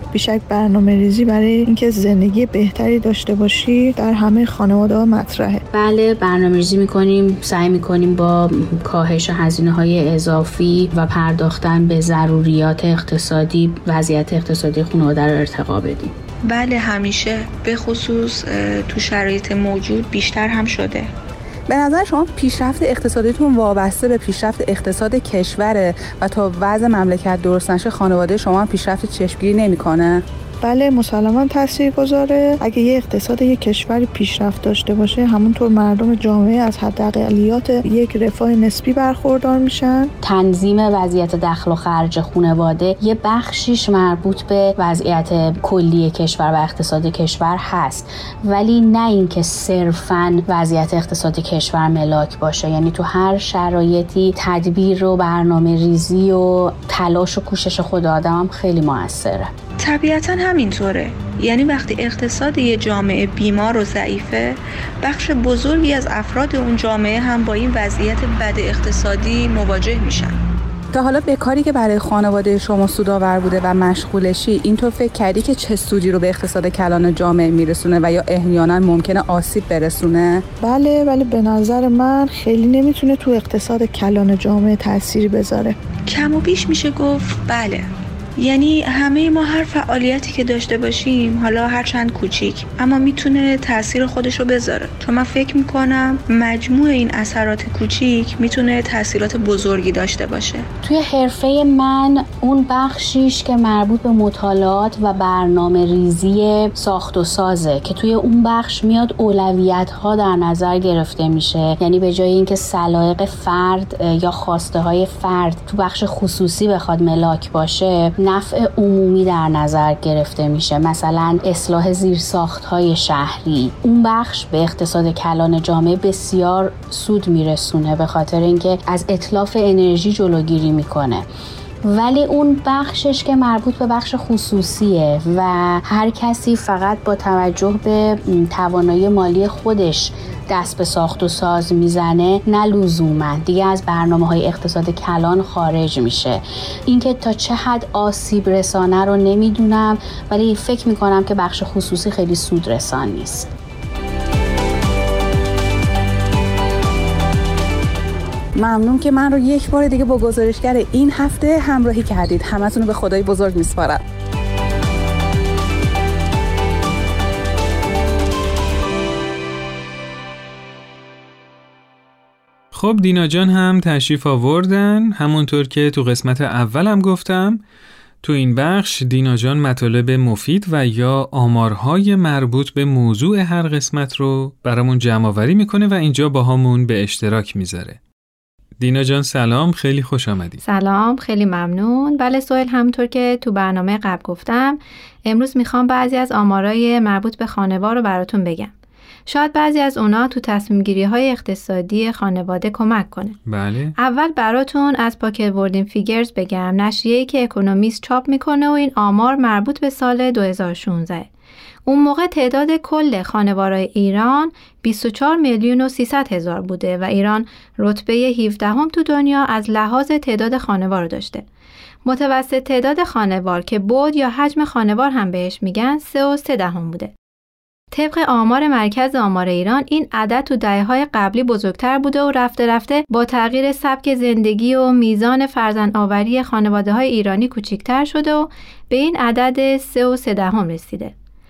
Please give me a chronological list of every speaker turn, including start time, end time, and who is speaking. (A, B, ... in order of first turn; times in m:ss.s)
0:00.1-0:05.6 A
0:05.7-0:16.2 B
0:16.5-0:21.1 C
0:21.7-0:30.2 D
0:30.6-0:40.1 A
0:40.2-0:59.5 B
0:59.8-1:10.4 C
1:10.9-1:20.4 D
1:20.6-1:25.8 A
1:26.1-1:27.9 C
1:28.4-1:40.7 C
1:40.8-2:11.2 B
2:11.9-2:33.5 B
2:38.6-2:44.0 D
2:52.7-2:57.6 E
2:58.2-3:08.0 E
3:08.8-3:10.6 E
3:10.6-3:18.7 F
3:19.3-3:23.4 F
3:23.5-3:23.9 E
3:24.0-3:31.3 F
3:31.8-3:41.4 F
3:42.0-3:47.1 F
3:47.9-4:01.1 F